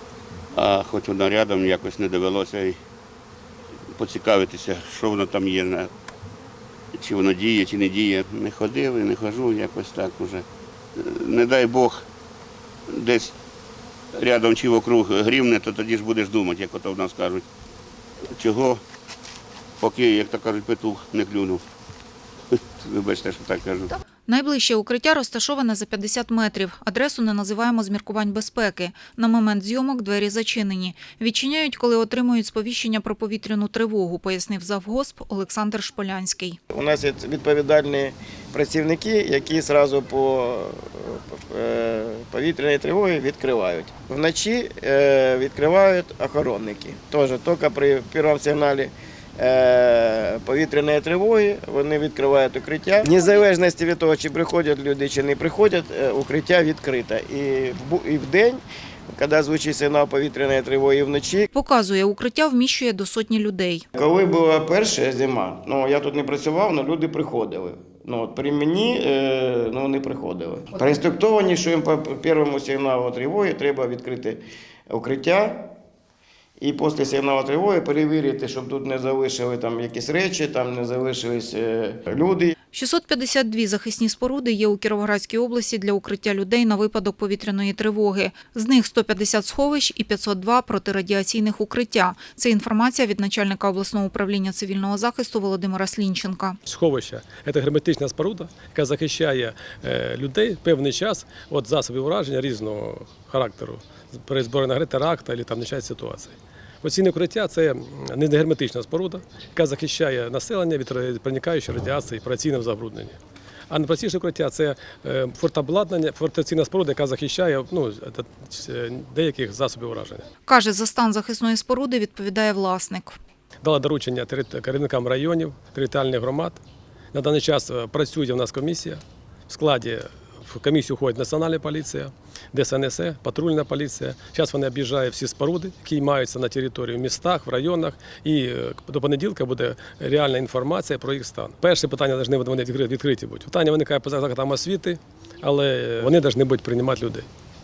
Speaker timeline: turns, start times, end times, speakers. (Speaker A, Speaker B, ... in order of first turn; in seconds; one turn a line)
Speaker A: 0.5-2.8
Speaker A: 4.0-5.9
Speaker A: 6.9-12.1
Speaker A: 12.9-13.3
Speaker A: 14.1-17.4
Speaker A: 18.4-18.8
Speaker A: 19.8-21.6
Speaker A: 22.5-23.9
Speaker B: 24.3-36.6
Speaker C: 36.7-61.5
Speaker B: 61.5-63.9
Speaker C: 64.0-75.6
Speaker C: 76.6-82.5
Speaker B: 82.7-96.6
Speaker D: 96.7-113.2
Speaker D: 113.7-120.2
Speaker B: 120.5-123.2
Speaker D: 123.6-126.6
Speaker D: 127.1-147.3